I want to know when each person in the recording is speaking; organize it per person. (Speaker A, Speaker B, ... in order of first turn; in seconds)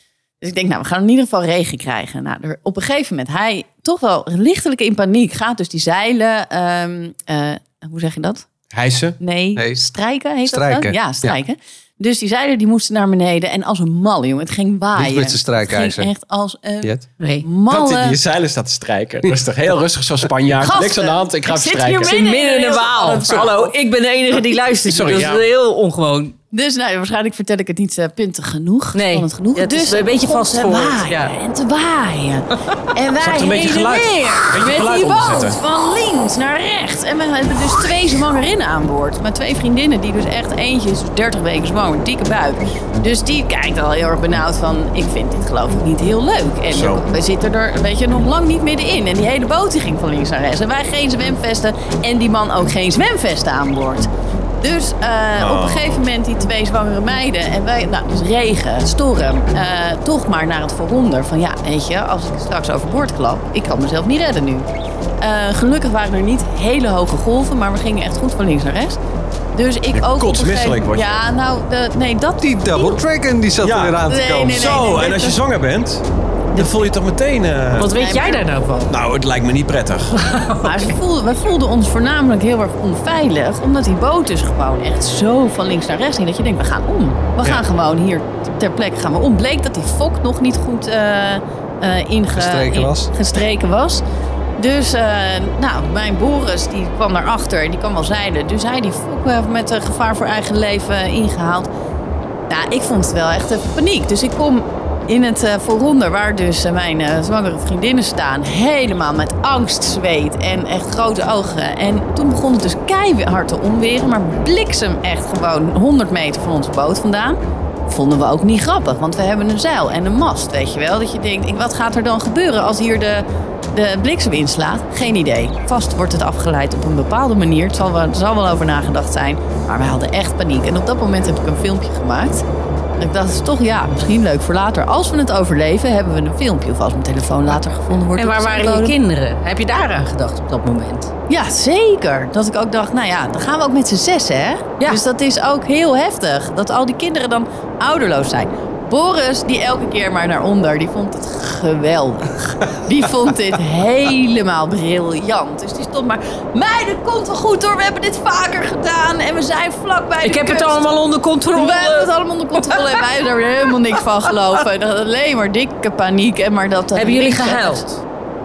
Speaker A: 0.4-8.5, 9.2-18.2, 20.6-23.7, 26.5-54.1, 54.6-64.7, 65.2-69.0, 69.5-73.0, 74.1-75.4, 77.9-78.4, 80.6-94.0, 94.6-101.7, 102.5-132.4, 133.0-138.9, 141.3-160.9, 161.5-167.8
Speaker B: 8.7-9.2, 17.7-22.2, 23.1-23.5, 24.9-25.4, 33.2-35.6, 46.7-47.0, 55.3-56.0, 69.9-71.1, 73.6-77.9, 78.9-80.1
Speaker C: 10.5-11.4, 14.9-16.1, 72.4-74.6, 92.3-93.1
Speaker D: 17.2-17.4, 22.0-26.4, 28.9-31.3, 77.8-78.9, 80.2-80.9, 138.2-141.1, 160.2-163.1, 166.9-168.0